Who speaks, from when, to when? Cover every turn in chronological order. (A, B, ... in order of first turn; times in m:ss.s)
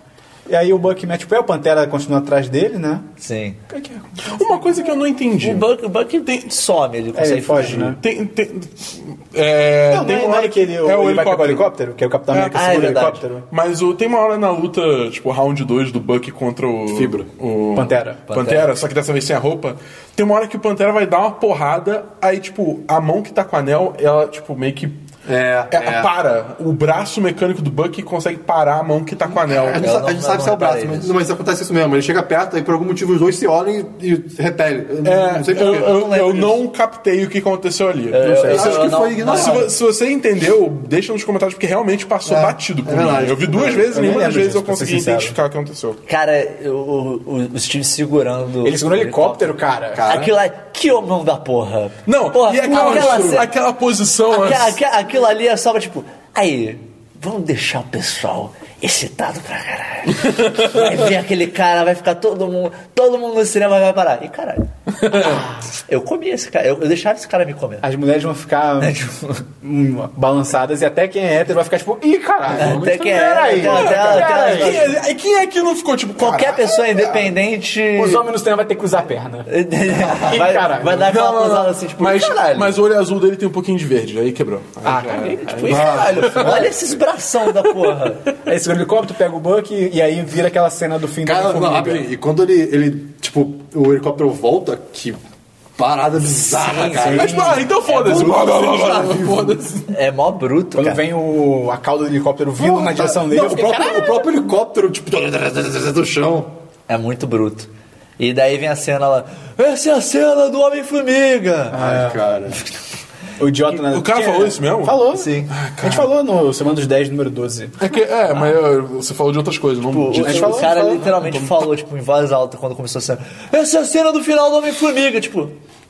0:00.5-0:03.1 A
0:03.2-0:03.6 B
0:03.7-0:04.8 A
0:04.2-0:05.7 C
0:05.4-0:08.0 B
0:07.2-0:08.0 A
0:07.6-0:11.7 C
0:09.9-0:13.4 A
0:12.3-0:12.9 C
0:12.5-0:13.2 B
0:13.5-0:25.0 C
0:16.9-0:17.3 D
0:17.8-0:18.2 A
0:18.3-0:18.7 B
0:25.3-0:26.1 D
0:25.7-0:29.9 C
0:29.3-0:36.0 D
0:29.8-0:31.1 B
0:35.0-0:46.0 C
0:35.5-0:36.6 B
0:38.1-0:39.7 B
0:38.2-0:38.6 A
0:38.4-0:39.7 D
0:42.2-0:44.3 D
0:43.9-0:45.4 A
0:46.1-0:53.5 B
0:48.6-0:50.2 A
0:50.0-0:50.3 D
0:52.1-0:54.8 C
0:52.7-0:53.4 D
0:54.3-1:07.8 B
1:05.0-1:05.4 C
1:05.1-1:05.7 A
1:07.8-1:09.1 A
1:08.8-1:09.4 B
1:09.6-1:14.9 A
1:12.4-1:14.2 D
1:12.5-1:15.0 B
1:13.7-1:17.1 C
1:16.2-1:18.2 B
1:18.0-1:21.1 A
1:19.5-1:22.8 B
1:20.9-1:26.7 C
1:24.8-1:26.6 A
1:25.4-1:28.3 B
1:25.7-1:26.7 D
1:28.5-1:32.1 A
1:31.2-1:35.2 D
1:35.8-1:39.8 D
1:36.6-1:37.7 A
1:36.9-1:39.9 C
1:37.8-1:38.4 B
1:39.9-1:41.0 B
1:40.8-1:44.3 A
1:42.6-1:46.5 D
1:46.9-1:51.8 B
1:51.7-1:52.2 A
1:51.7-1:52.6 D
1:53.4-1:57.8 A
1:53.7-1:56.1 C
1:55.1-1:55.5 B
1:57.8-2:01.7 C
1:59.9-2:05.5 B
2:00.1-2:01.0 A